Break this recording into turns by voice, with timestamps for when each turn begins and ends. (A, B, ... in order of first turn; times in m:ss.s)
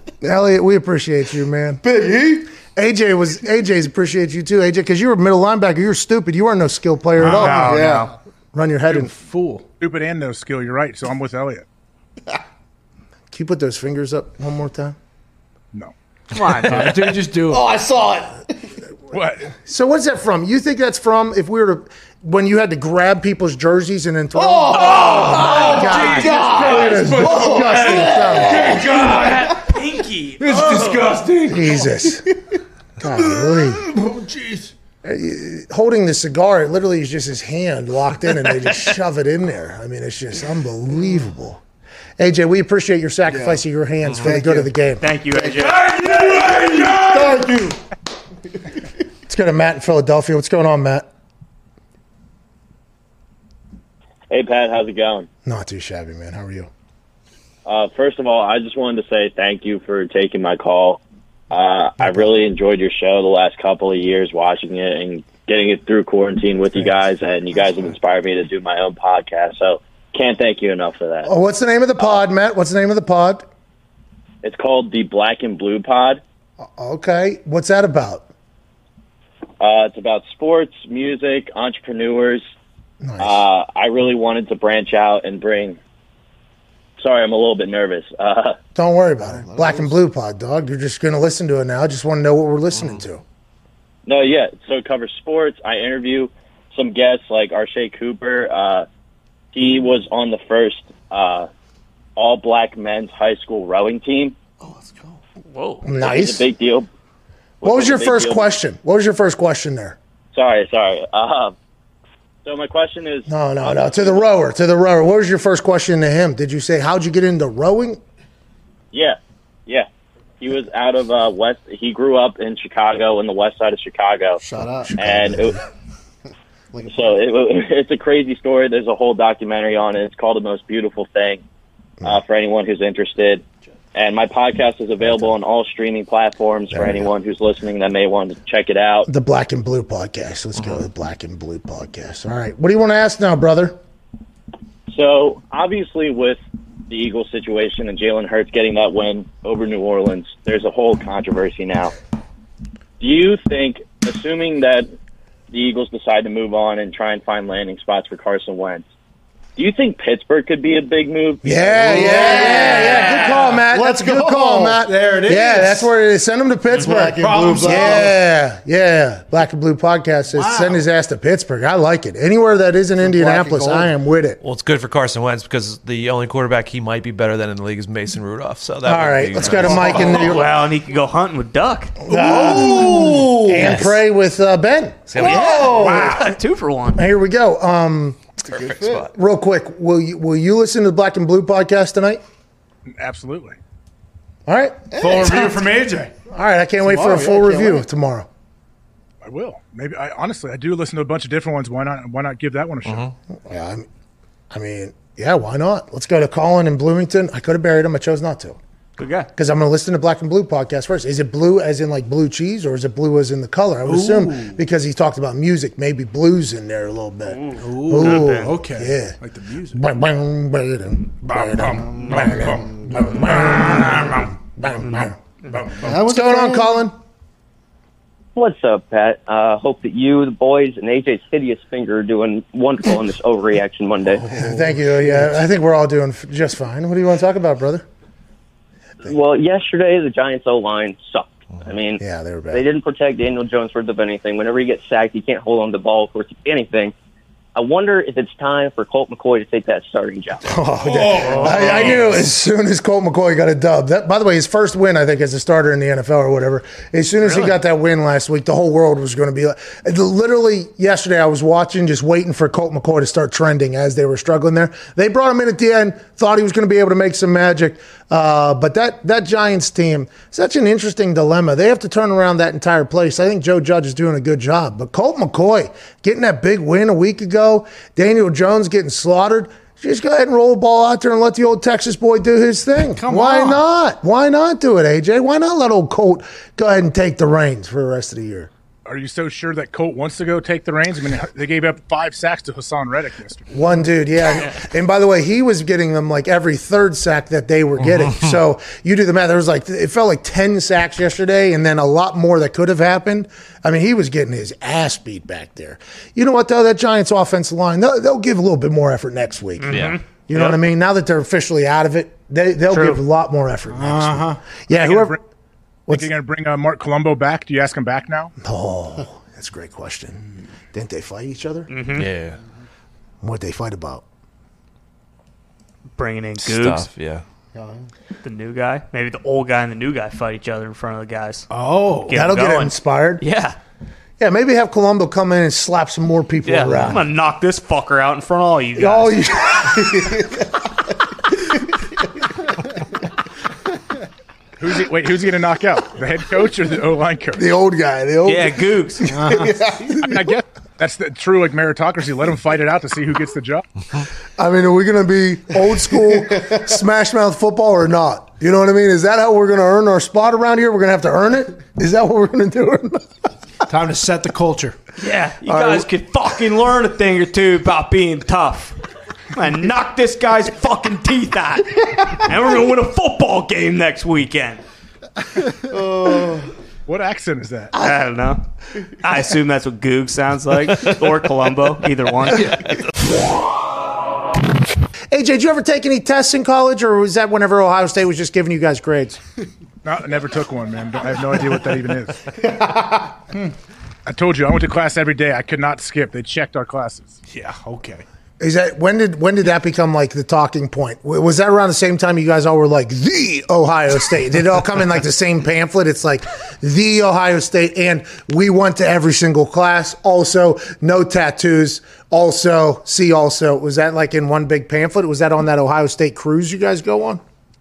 0:00.2-0:01.8 A
0:01.8-0:02.5 B
0:02.6-0:07.8 A
0:07.2-0:08.1 C
0:07.3-0:08.1 B
0:08.5-0:09.1 A
0:09.0-0:09.6 C
0:09.8-0:11.6 D
0:13.3-0:15.0 A
0:16.3-0:16.8 E
0:16.6-0:17.7 C
0:16.6-0:17.0 D
0:17.4-0:18.7 B
0:19.1-0:19.5 D
0:19.6-0:28.8 A
0:24.3-0:29.5 B
0:24.8-0:29.6 C
0:29.0-0:31.2 E
0:30.4-0:31.7 C
0:31.5-0:32.2 A
0:33.0-0:33.8 A
0:33.8-0:34.6 B
0:35.0-0:41.6 A
0:42.2-0:45.0 A
0:43.3-0:43.6 B
0:44.2-0:44.7 B
0:45.0-0:45.8 E
0:45.3-0:47.7 B
0:45.6-0:47.5 C
0:47.1-0:47.4 A
0:49.3-0:51.1 A
0:54.3-0:55.3 F
0:55.4-0:56.7 A
0:57.6-1:01.0 F
1:01.5-1:11.3 F
1:11.2-1:13.5 A
1:14.4-1:16.2 F
1:16.8-1:18.3 A
1:19.6-1:22.4 F
1:23.0-1:23.4 A
1:23.2-1:25.8 F
1:27.0-1:28.6 F
1:28.7-1:33.2 A
1:29.2-1:29.9 B
1:34.0-1:38.8 F
1:39.5-1:41.5 F
1:42.2-1:44.3 F
1:45.5-1:45.8 E
1:45.8-1:46.4 A
1:45.9-1:46.9 F
1:47.6-1:48.5 F
1:47.6-1:50.0 A
1:50.3-1:51.5 F
1:52.4-1:54.3 F
1:53.3-1:58.0 A
1:58.9-1:59.9 F
2:00.4-2:04.4 F
2:04.4-2:05.4 B
2:04.8-2:05.5 A
2:05.0-2:05.6 F
2:06.7-2:07.0 B
2:06.9-2:11.4 F
2:12.0-2:13.4 F
2:13.9-2:19.1 F
2:16.7-2:17.0 A
2:19.1-2:23.8 A
2:24.9-2:31.9 F
2:33.0-2:34.9 F
2:35.5-2:38.8 F
2:39.6-2:43.2 F
2:41.4-2:54.4 A
2:41.7-2:43.5 B
2:42.8-2:45.8 C
2:46.7-2:48.1 C
2:46.8-2:48.1 B
2:50.3-2:50.8 C
2:53.0-2:53.9 B
2:54.4-3:00.0 G
2:58.8-3:00.5 A
2:59.7-3:02.0 E
3:02.1-3:06.0 A
3:02.3-3:03.4 B
3:05.1-3:05.9 G
3:05.2-3:07.0 E
3:05.6-3:06.0 B
3:05.8-3:06.2 C
3:06.9-3:08.2 A
3:08.5-3:09.1 G
3:09.0-3:12.2 A
3:13.0-3:13.6 D
3:14.5-3:15.6 A
3:14.9-3:15.6 B
3:15.0-3:16.1 C
3:16.2-3:18.3 A
3:16.9-3:17.8 B
3:19.2-3:23.1 D
3:22.8-3:23.1 G
3:23.4-3:23.9 A
3:24.5-3:28.6 A
3:29.0-3:29.3 E
3:29.4-3:39.2 A
3:33.8-3:34.6 C
3:37.3-3:38.5 E
3:37.6-3:39.8 C
3:39.7-3:45.2 A
3:41.8-3:42.8 B
3:42.2-3:42.5 D
3:43.0-3:44.2 C
3:45.8-3:46.8 B
3:45.8-3:46.9 A
3:48.3-3:54.2 H
3:54.2-3:55.0 B
3:54.3-3:57.8 A
3:59.0-4:06.9 H
4:02.0-4:02.6 A
4:07.5-4:10.4 H
4:10.5-4:48.5 A
4:10.8-4:12.1 C
4:42.9-4:43.6 C
4:48.8-4:53.5 D
4:53.5-5:15.2 A
5:09.6-5:10.6 E
5:09.7-5:10.0 G
5:12.7-5:13.0 E
5:13.7-5:14.4 C
5:14.7-5:15.2 D
5:15.9-5:18.3 D
5:18.4-5:20.2 A
5:20.7-5:21.7 A
5:21.7-5:22.1 E
5:21.9-5:22.4 G
5:23.2-5:24.0 A
5:26.0-5:26.9 E
5:26.4-5:27.2 G
5:27.5-5:27.8 B
5:28.2-5:31.4 E
5:31.5-5:32.1 C
5:32.1-5:33.2 A
5:32.1-5:33.6 E
5:34.2-5:37.0 A
5:36.4-5:39.2 E
5:38.8-5:40.2 A
5:44.6-5:47.4 D
5:47.4-5:50.3 A
5:48.2-5:49.1 E
5:49.1-5:49.5 C
5:49.9-5:53.6 D
5:54.4-6:03.1 A
6:03.7-6:04.8 C
6:05.0-6:08.8 E
6:05.4-6:05.8 A
6:09.3-6:14.6 E
6:15.7-6:16.5 B
6:16.9-6:17.7 D
6:17.8-6:18.4 E
6:19.0-6:22.6 E
6:25.1-6:29.2 A
6:29.8-6:32.2 D
6:34.0-6:37.2 D
6:37.3-6:38.0 C
6:38.4-6:57.2 A